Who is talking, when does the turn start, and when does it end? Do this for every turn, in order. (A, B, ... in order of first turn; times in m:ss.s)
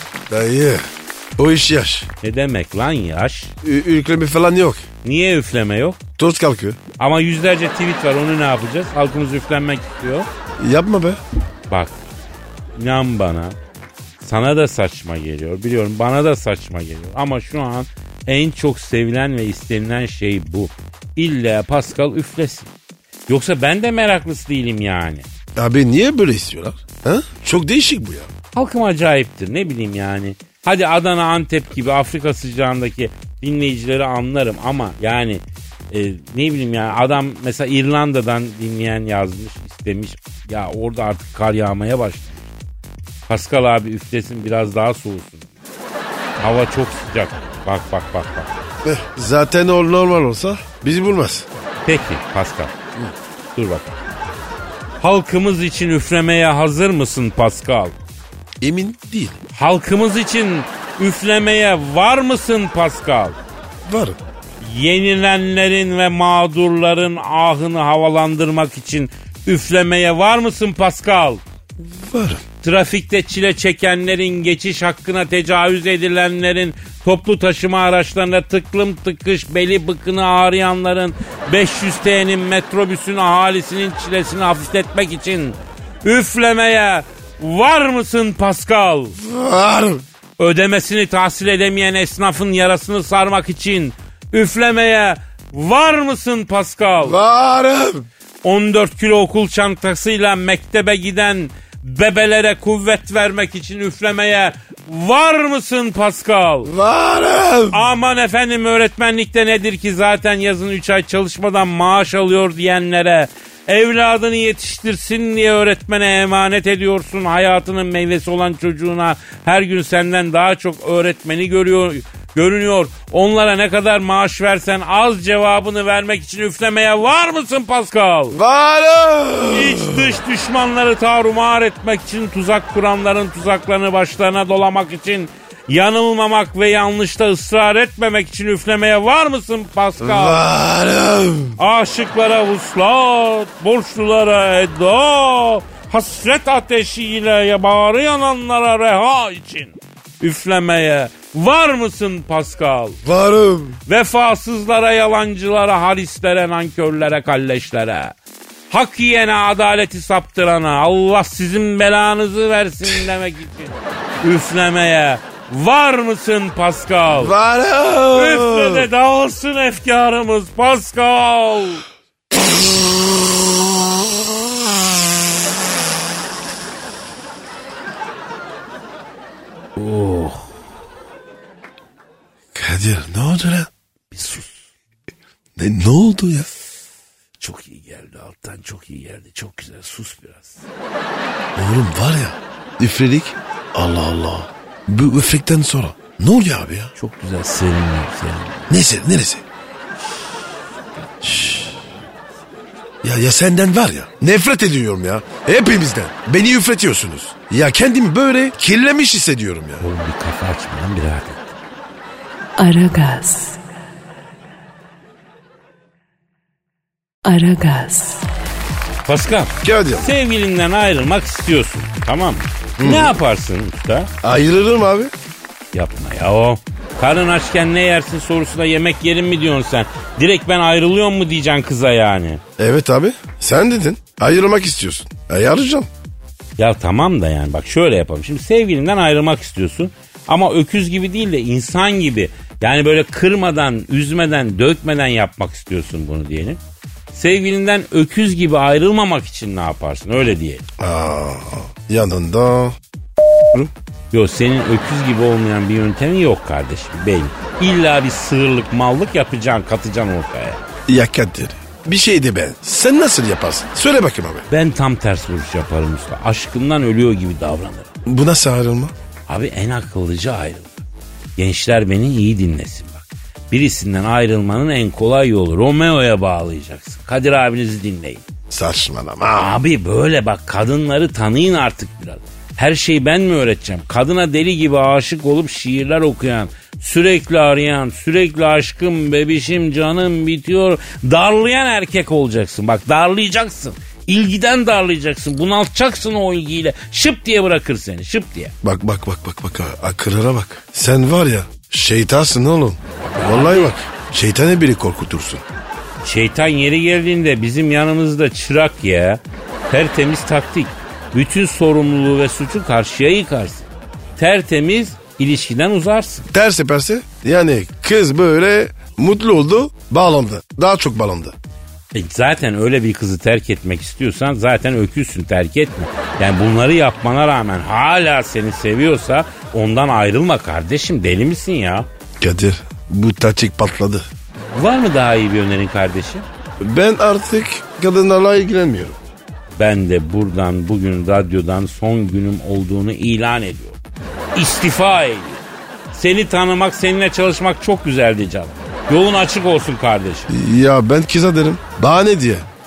0:00.3-0:02.1 A
0:02.2-0:03.5 B
0:03.6-0:04.8 A
0:05.0-0:06.0 B
0:06.2-0:06.8 A
0:07.0-0:10.3 B
0:10.6-0:11.2 A
0:11.7-0:12.0 B
0:12.7-0:13.6 B
0:14.2-0:22.7 B
0:23.3-0:25.3 B
0:25.6-0:28.3 A
0:28.5-0:42.5 B
0:43.3-0:45.5 B
0:46.4-0:48.5 B
0:48.8-0:51.5 A
0:51.8-0:53.9 B
0:55.0-0:58.0 B
0:58.6-0:59.4 A
0:59.5-1:03.4 B
1:03.8-1:04.2 A
1:04.6-1:11.4 B
1:12.0-1:12.4 A
1:12.6-1:29.2 B
1:29.2-1:30.0 A
1:30.4-1:37.2 B
1:37.0-1:38.0 A
1:38.4-1:46.7 B
1:46.6-1:47.8 A
1:47.7-2:08.4 B
2:08.3-2:10.2 A
2:09.5-2:20.4 B
2:20.0-2:21.6 A
2:21.6-2:33.0 B
2:33.0-2:33.8 A
2:33.9-2:38.1 B
2:38.7-2:47.4 B
2:47.1-2:48.9 A
2:48.1-2:51.8 B
2:52.4-2:54.0 A
2:59.8-3:00.5 B
3:02.5-3:03.7 A
3:04.1-3:04.6 B
3:05.6-3:06.5 A
3:07.4-3:10.6 B
3:11.5-3:16.9 A
3:17.0-3:18.7 B
3:18.7-3:19.4 A
3:21.2-3:21.6 B
3:21.3-3:21.6 A
3:23.0-3:29.8 A
3:29.8-3:31.5 B
3:32.6-3:33.6 C
3:37.2-3:38.3 C
3:39.0-3:44.1 B
3:39.6-3:40.1 A
3:42.8-3:43.1 A
3:44.2-3:45.1 A
3:45.7-3:52.4 B
3:52.6-3:55.9 A
3:56.6-4:06.6 B
4:07.1-4:10.6 B
4:10.8-4:12.8 A
4:14.1-4:20.7 B
4:20.9-4:24.4 A
4:24.5-4:27.9 B
4:28.0-4:28.9 A
4:29.3-4:30.8 B
4:31.4-4:38.2 B
4:38.5-4:39.5 A
4:39.3-4:58.5 B
4:58.6-5:05.4 A
5:03.0-5:03.7 B
5:06.0-5:16.3 B
5:16.3-5:21.3 A
5:21.9-5:31.9 B
5:32.2-5:34.1 A
5:34.5-5:36.2 B
5:36.6-5:39.0 A
5:39.5-5:43.8 B
5:44.3-5:45.4 B
5:45.9-5:50.3 B
5:50.3-5:52.4 A